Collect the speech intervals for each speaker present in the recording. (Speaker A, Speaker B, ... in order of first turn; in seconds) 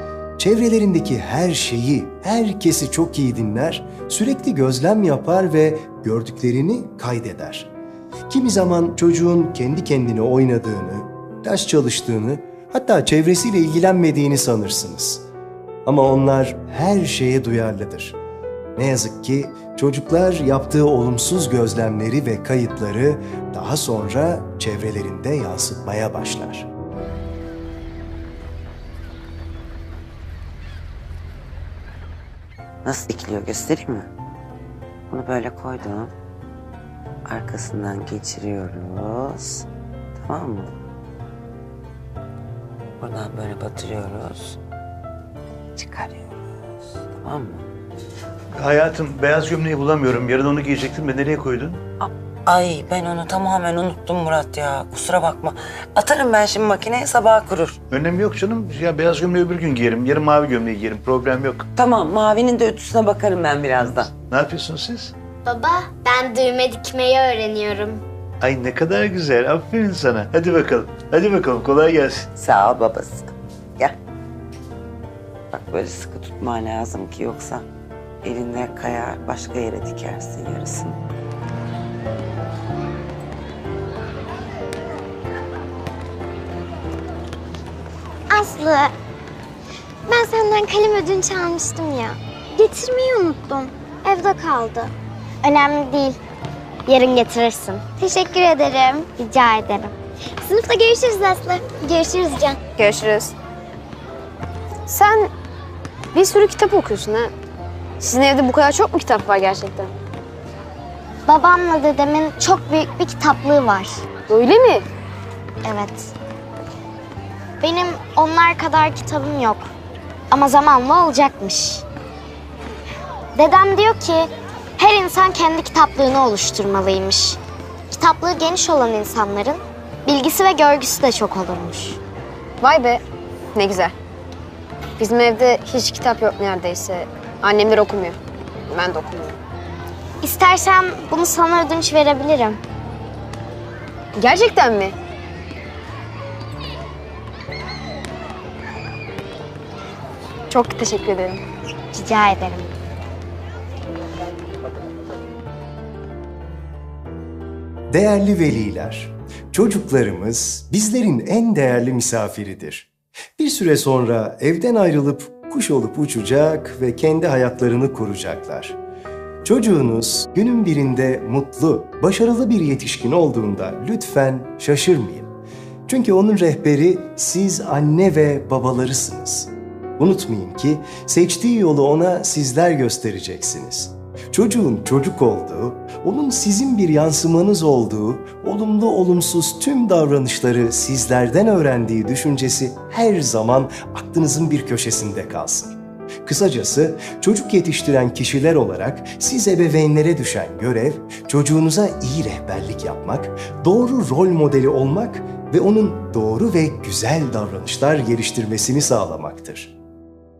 Speaker A: 0.4-7.7, 8.3-15.2, 15.8-18.2, 18.8-26.7, 157.9-168.8, 169.4-175.3, 175.9-209.7
Speaker B: 32.8-34.1, 35.1-36.1, 37.3-39.6, 40.2-40.7, 43.0-44.6, 45.8-46.4, 47.1-47.6, 52.0-57.8, 61.8-64.1, 72.4-74.0, 75.5-77.7, 78.2-81.0
Speaker C: 48.5-51.8, 57.9-61.7, 63.8-65.1, 68.4-72.3
Speaker D: 65.5-68.0, 88.3-88.9, 90.1-94.9, 95.4-96.2, 96.9-102.6, 111.2-114.0, 115.6-116.1, 117.6-119.7, 120.3-121.8, 123.3-127.4, 127.9-132.0, 140.2-142.6, 151.9-152.7
Speaker E: 102.8-103.3, 104.9-105.3, 106.1-107.3, 108.0-109.9, 114.3-114.8, 132.6-133.0, 133.5-133.9, 135.0-138.1, 138.7-139.3, 144.2-144.9, 150.5-151.4